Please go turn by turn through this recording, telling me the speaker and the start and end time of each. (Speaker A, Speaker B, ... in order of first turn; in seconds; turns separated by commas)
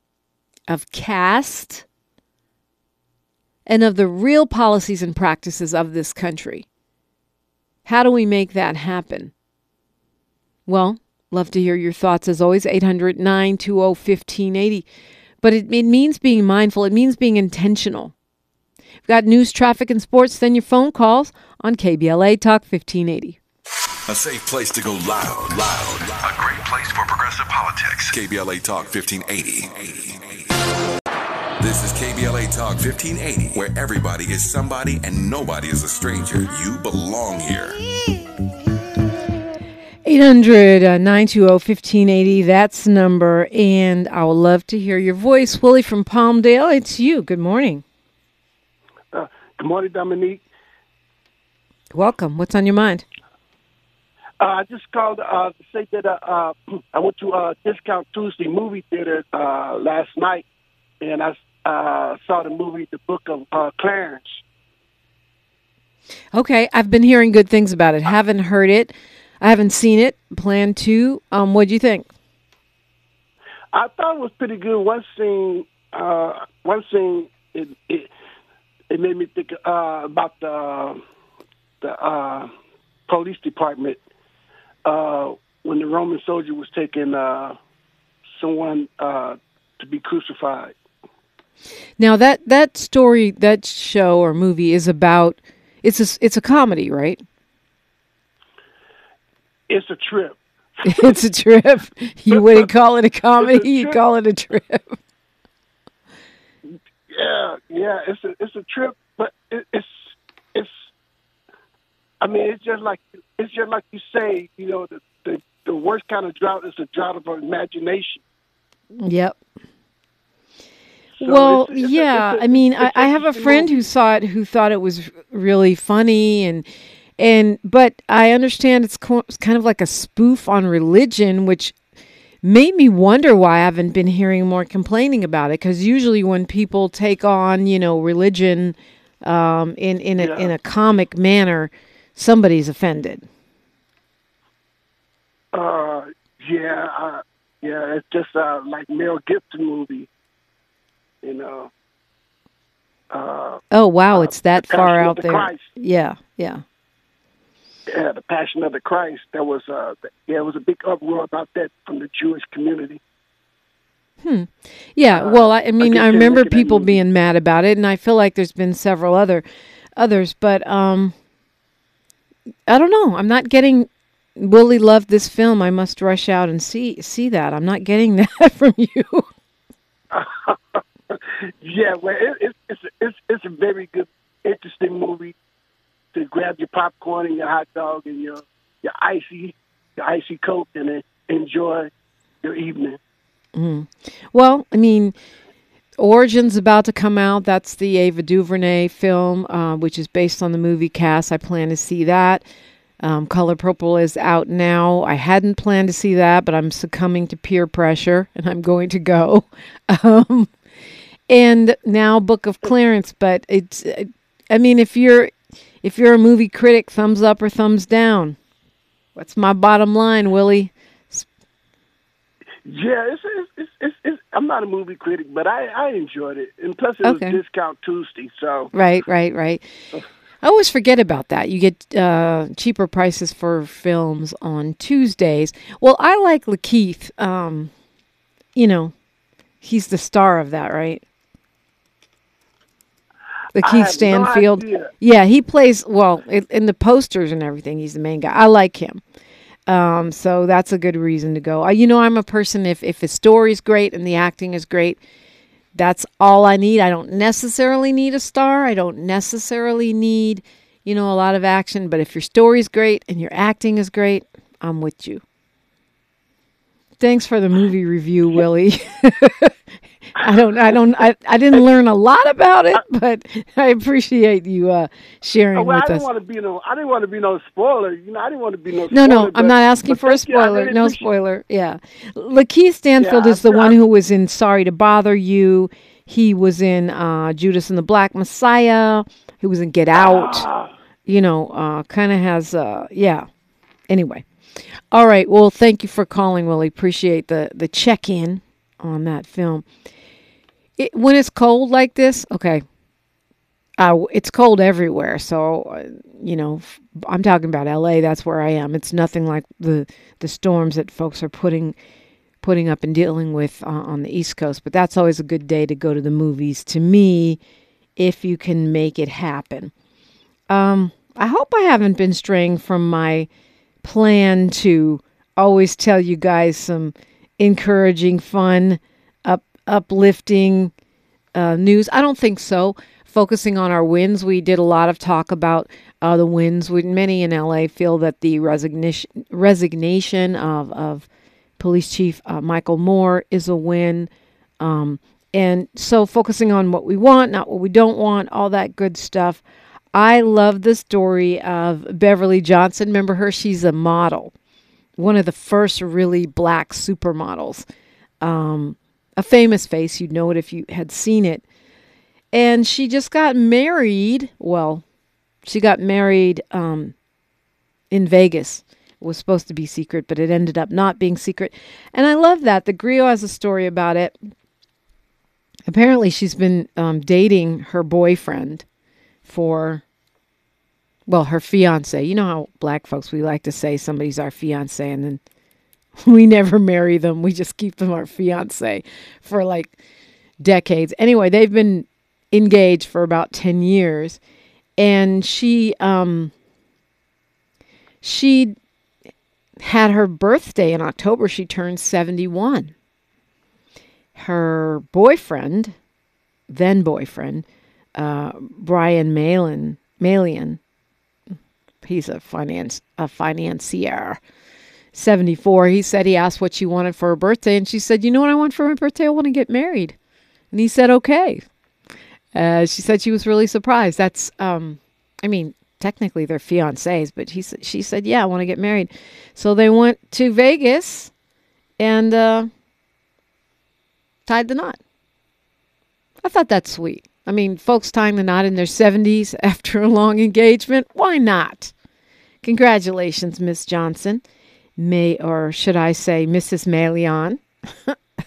Speaker A: 0.7-1.9, Speaker A: 3.7-6.7, Speaker A: 7.8-9.3, Speaker A: 10.7-14.8, Speaker A: 15.4-18.1, Speaker A: 19.1-23.4, Speaker B: 24.1-30.4, Speaker B: 31.6-37.8, Speaker A: 40.1-47.8, Speaker C: 49.1-50.4, Speaker A: 51.9-53.0, Speaker C: 54.4-60.5, Speaker C: 61.0-64.4, Speaker A: 66.3-72.1, Speaker C: 73.7-78.1, Speaker C: 78.9-81.0, Speaker C: 81.8-82.5, Speaker C: 83.1-84.0, Speaker C: 84.8-87.6, Speaker C: 88.3-90.7, Speaker A: 92.0-97.2, Speaker C: 99.7-101.2, Speaker A: 100.8-105.0, Speaker C: 102.3-102.7, Speaker C: 103.4-104.0, Speaker C: 107.1-110.8, Speaker C: 112.2-118.2, Speaker A: 119.0-119.4, Speaker A: 121.2-126.7, Speaker C: 121.2-123.8, Speaker A: 127.2-131.8, Speaker A: 132.4-143.3, Speaker C: 140.2-140.5, Speaker C: 145.5-150.1, Speaker C: 151.2-151.7, Speaker C: 153.1-153.6, Speaker A: 153.7-156.6, Speaker C: 154.2-155.7, Speaker C: 157.9-163.0, Speaker A: 164.2-169.4, Speaker C: 165.1-167.0, Speaker A: 170.0-171.1, Speaker A: 172.7-179.3, Speaker C: 180.1-185.4, Speaker C: 186.1-191.9, Speaker C: 192.4-193.0, Speaker A: 193.6-195.2, Speaker A: 196.0-202.4, Speaker A: 203.0-210.5, Speaker A: 211.3-218.4, Speaker A: 219.2-221.3, Speaker C: 222.7-228.7, Speaker A: 227.0-227.4, Speaker A: 228.7-229.6, Speaker A: 230.4-237.7, Speaker A: 238.6-238.9, Speaker A: 239.6-241.0, Speaker A: 243.5-249.0, Speaker C: 243.6-244.9, Speaker A: 249.7-255.0, Speaker A: 255.8-265.2, Speaker A: 267.0-269.5, Speaker A: 270.2-276.1, Speaker C: 270.2-270.7, Speaker C: 275.6-281.1, Speaker A: 278.9-290.5, Speaker C: 283.0-283.8, Speaker C: 289.9-290.7, Speaker A: 291.1-293.3, Speaker A: 293.9-294.2, Speaker A: 294.9-299.7, Speaker A: 300.8-302.6, Speaker A: 303.8-311.8, Speaker A: 312.4-317.4, Speaker A: 318.0-319.7, Speaker A: 320.5-323.3, Speaker A: 323.8-330.7, Speaker A: 331.4-341.1, Speaker A: 341.6-349.4, Speaker A: 349.9-354.3, Speaker A: 355.0-357.6, Speaker A: 358.2-361.4, Speaker A: 362.3-364.8, Speaker A: 365.4-366.9, Speaker A: 367.9-374.2, Speaker A: 375.7-378.6, Speaker A: 379.2-379.8, Speaker A: 381.1-385.2, Speaker A: 386.0-389.8, Speaker A: 390.4-394.2, Speaker A: 394.8-396.3, Speaker A: 398.0-398.6, Speaker A: 399.6-402.7, Speaker A: 404.1-405.8, Speaker A: 406.5-407.4, Speaker A: 408.0-410.6, Speaker A: 411.8-414.2, Speaker A: 414.9-420.0, Speaker A: 420.5-421.4, Speaker A: 422.3-431.1, Speaker A: 431.8-432.5, Speaker A: 434.3-434.8, Speaker A: 436.2-441.7, Speaker A: 442.4-444.2, Speaker A: 444.8-447.9